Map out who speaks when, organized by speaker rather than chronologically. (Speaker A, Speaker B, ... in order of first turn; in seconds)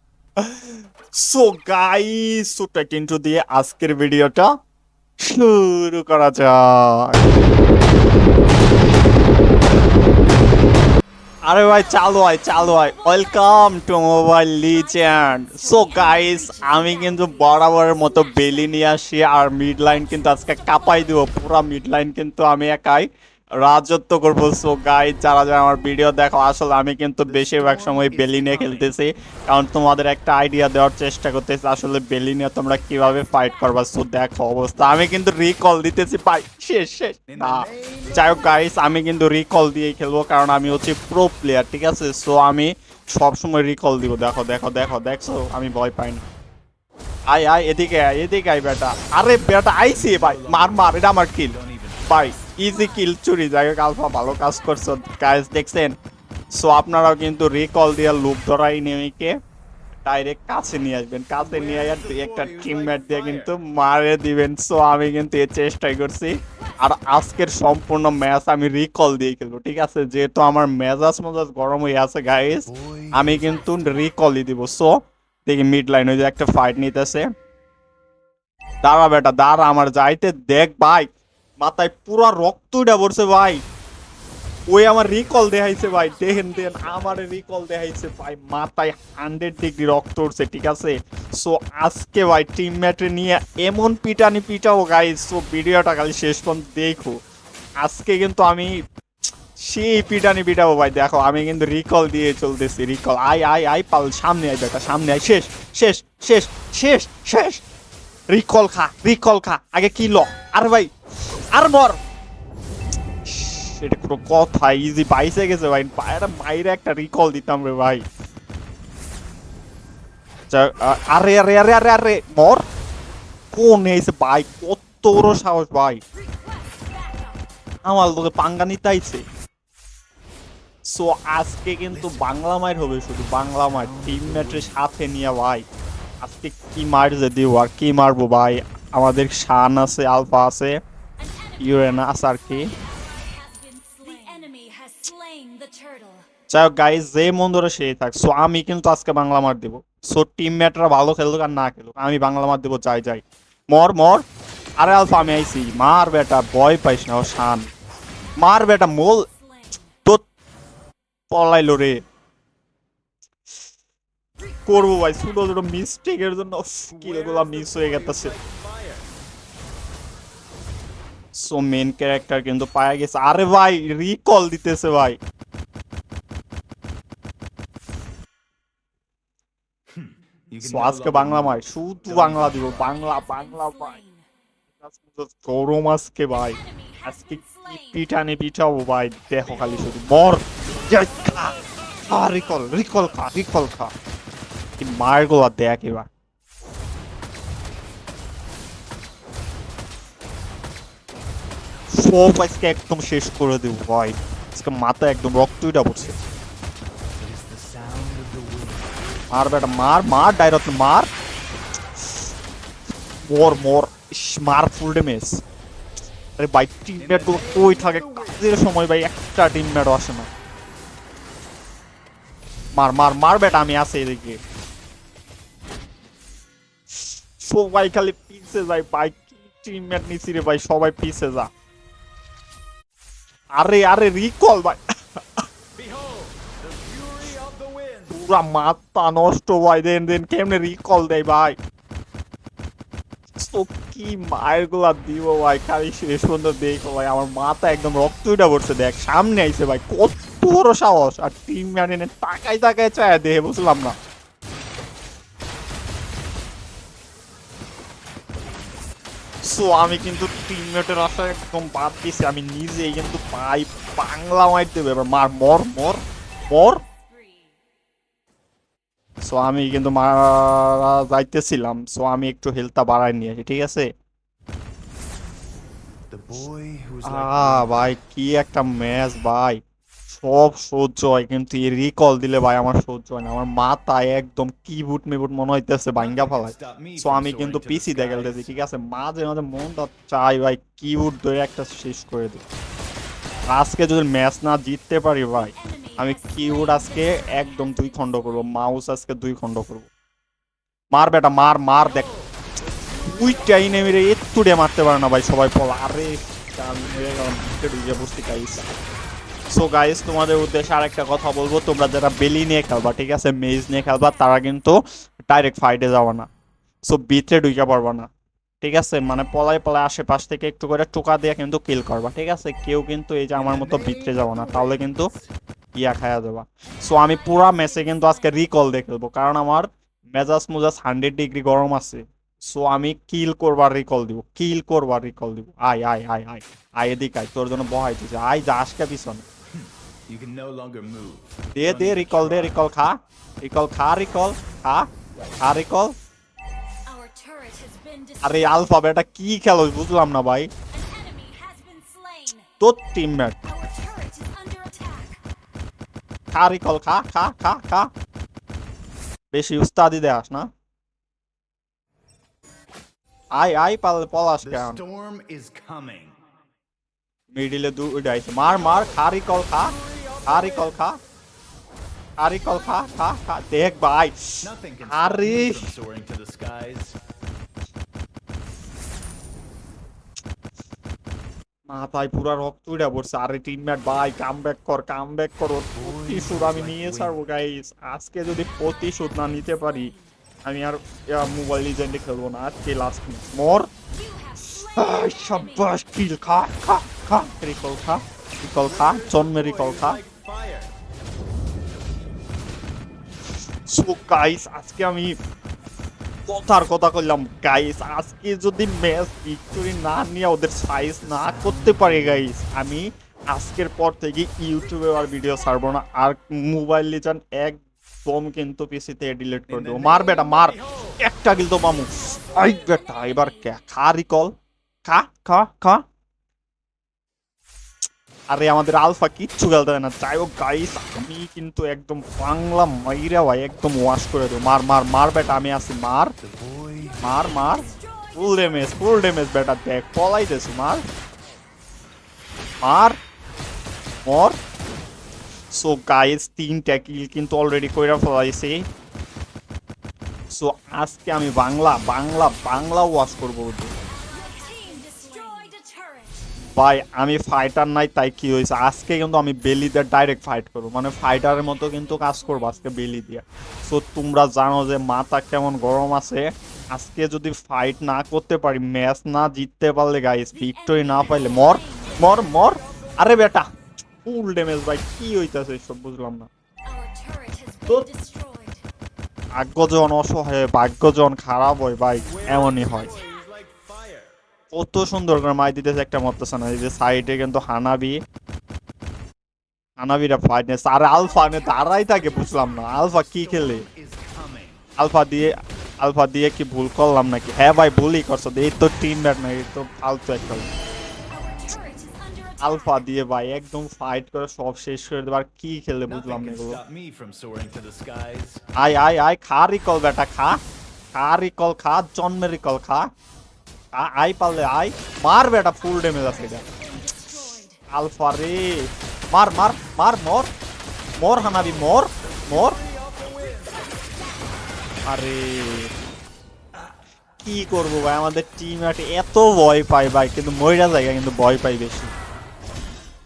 Speaker A: 0.4-4.5, 5.2-7.2, 11.4-46.3, 47.3-51.5, 52.1-56.0, 56.5-59.4, 60.0-77.3, 78.8-83.6, 84.7-97.2, 97.8-98.8, 99.6-107.6, 108.3-110.9, 111.5-112.0, 113.3-118.0, 120.5-122.6, 123.5-126.0, 127.8-129.2, 130.9-135.7, 136.2-140.8, 141.6-142.7, 146.5-154.3, 154.8-157.7, 158.4-159.3, 161.3-162.0, 164.7-168.3, 171.3-175.2, 180.6-184.0, 184.8-193.9, 194.8-196.1, 201.9-206.2, 209.3-211.1, 213.2-215.4, 216.4-220.3, 222.8-224.4, 227.4-231.5, 233.6-235.4, 238.1-241.6, 243.4-253.9, 259.4-266.8, 269.2-273.9, 277.0-292.4, 293.5-299.9, 300.9-302.1, 303.1-308.7, 309.5-316.3, 316.8-318.1, 318.6-325.1, 325.8-339.2, 341.6-344.9, 345.4-346.0, 348.2-350.5, 352.6-353.4, 356.3-357.9, 359.3-360.5, 363.4-364.8, 367.3-371.0, 372.2-375.7, 381.7-389.9, 390.4-393.7, 394.7-400.0, 403.7-405.2, 406.3-424.3, 424.9-425.8, 428.3-436.2, 437.0-440.9, 442.6-443.0, 444.1-444.4, 445.5-448.7, 450.3-453.8, 456.6-473.5, 474.0-476.3, 479.4-482.9, 484.5-488.0, 489.8-493.7, 494.8-500.5, 502.4-506.6, 508.6-510.4, 510.9-512.9, 513.7-516.4, 517.7-520.3, 521.0-522.6, 524.9-525.7, 527.2-531.9
Speaker B: 11.9-13.9, 14.6-18.8, 19.8-21.4, 52.5-53.1, 54.6-55.6, 66.6-67.7, 85.3-87.1, 126.1-127.5, 141.2-146.3, 159.1-159.9, 164.4-165.6, 182.7-184.3, 186.5-188.1, 266.4-267.6, 295.4-298.7, 326.7-328.5, 346.9-348.8, 350.7-352.5, 353.4-355.2, 388.4-390.1, 393.9-396.5, 422.2-423.6, 436.8-439.2, 453.9-456.3, 461.1-462.8, 470.3-472.3, 476.6-478.6, 490.9-492.9, 501.1-502.9, 515.7-517.6, 523.7-524.8
Speaker C: 27.3-28.9, 37.3-38.8, 49.9-52.5, 61.4-63.5, 72.7-74.2, 86.1-87.2, 131.9-132.4, 133.3-134.9, 154.9-155.2, 166.9-169.1, 179.9-183.0, 205.9-206.5, 207.1-209.1, 217.0-218.7, 235.8-238.2, 276.1-278.0, 286.0-288.7, 301.8-304.1, 323.4-325.3, 339.5-342.7, 364.4-366.2, 369.6-370.8, 374.4-377.0, 385.7-387.2, 398.6-400.7, 411.0-412.3, 419.5-422.0, 436.2-437.7, 471.9-473.5, 481.9-484.2, 492.8-494.6, 505.9-508.5, 521.2-523.7